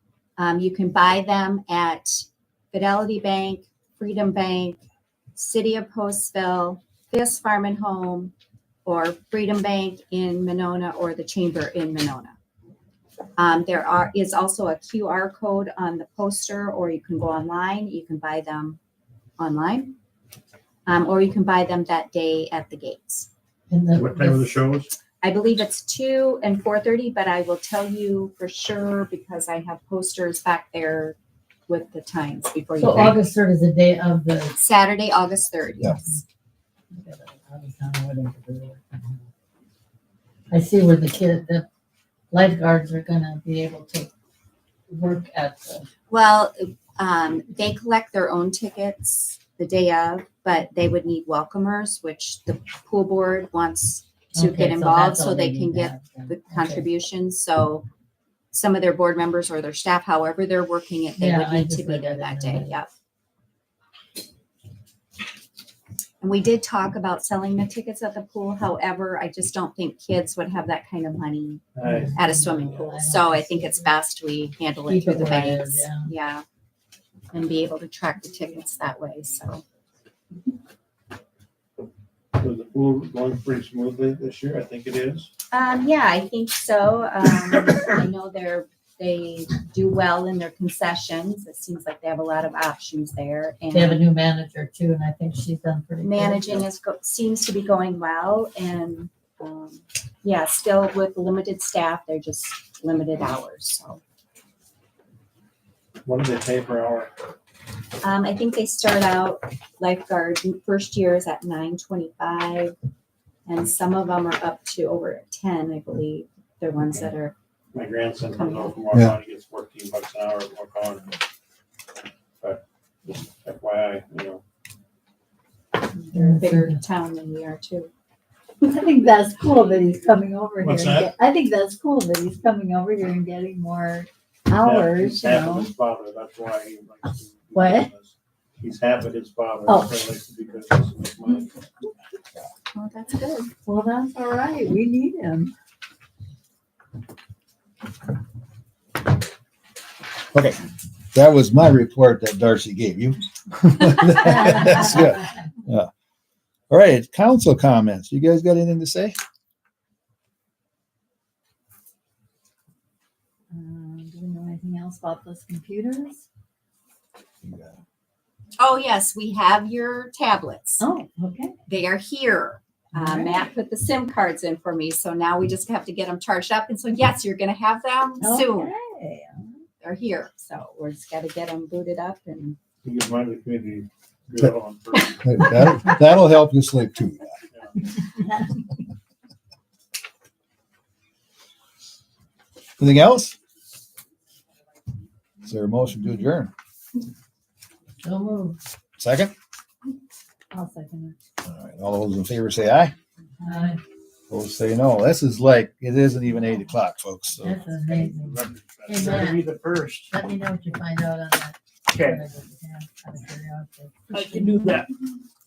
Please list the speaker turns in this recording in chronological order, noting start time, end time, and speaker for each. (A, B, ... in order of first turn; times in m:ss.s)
0:00.4-0:04.8 A
0:05.4-0:08.3 A
0:08.8-0:12.4 A
0:13.4-0:18.8 A
0:19.4-0:19.9 A
0:20.8-0:23.3 A
0:23.7-0:24.5 B
0:23.9-0:24.9 C
0:25.2-0:31.2 A
0:31.7-0:33.2 A
0:32.8-0:34.6 B
0:34.6-0:36.2 A
0:36.9-0:39.3 B
0:40.5-0:41.6 B
0:42.3-0:44.1 B
0:44.9-0:45.9 B
0:46.1-0:57.8 A
0:54.3-0:56.8 B
0:58.5-1:02.9 A
1:01.2-1:02.8 B
1:06.2-1:16.4 A
1:11.7-1:12.4 C
1:11.8-1:13.9 B
1:14.9-1:16.1 B
1:17.3-1:19.6 A
1:22.4-1:25.3 C
1:25.5-1:34.0 A
1:33.7-1:36.6 B
1:36.0-1:44.0 A
1:46.0-1:47.1 C
1:48.0-1:52.7 A
1:53.5-1:57.3 A
1:57.7-2:01.2 C
1:58.3-1:58.8 A
2:02.4-2:04.4 C
2:05.9-2:07.9 A
2:06.1-2:06.8 B
2:08.6-2:15.7 D
2:10.6-2:11.1 C
2:14.5-2:21.7 C
2:17.6-2:17.9 D
2:19.7-2:20.1 D
2:22.7-2:23.5 A
2:23.6-2:25.5 D
2:30.3-2:35.9 E
2:34.3-2:34.8 D
2:36.7-2:39.1 E
2:43.5-2:46.2 D
2:47.4-2:47.8 E
2:48.6-2:50.8 A
2:50.8-2:51.5 D
2:51.7-2:58.7 A
2:53.0-2:53.4 D
2:58.2-2:59.6 D
2:59.8-3:02.6 A
3:02.8-3:05.8 C
3:05.2-3:07.3 E
3:07.5-3:07.8 C
3:12.8-3:13.3 E
3:15.4-3:16.5 E
3:18.0-3:18.6 B
3:19.0-3:19.3 E
3:20.5-3:21.1 D
3:21.4-3:22.9 E
3:23.4-3:23.8 B
3:24.3-3:27.6 E
3:27.4-3:29.4 B
3:27.7-3:30.1 C
3:30.1-3:34.7 B
3:34.5-3:34.8 C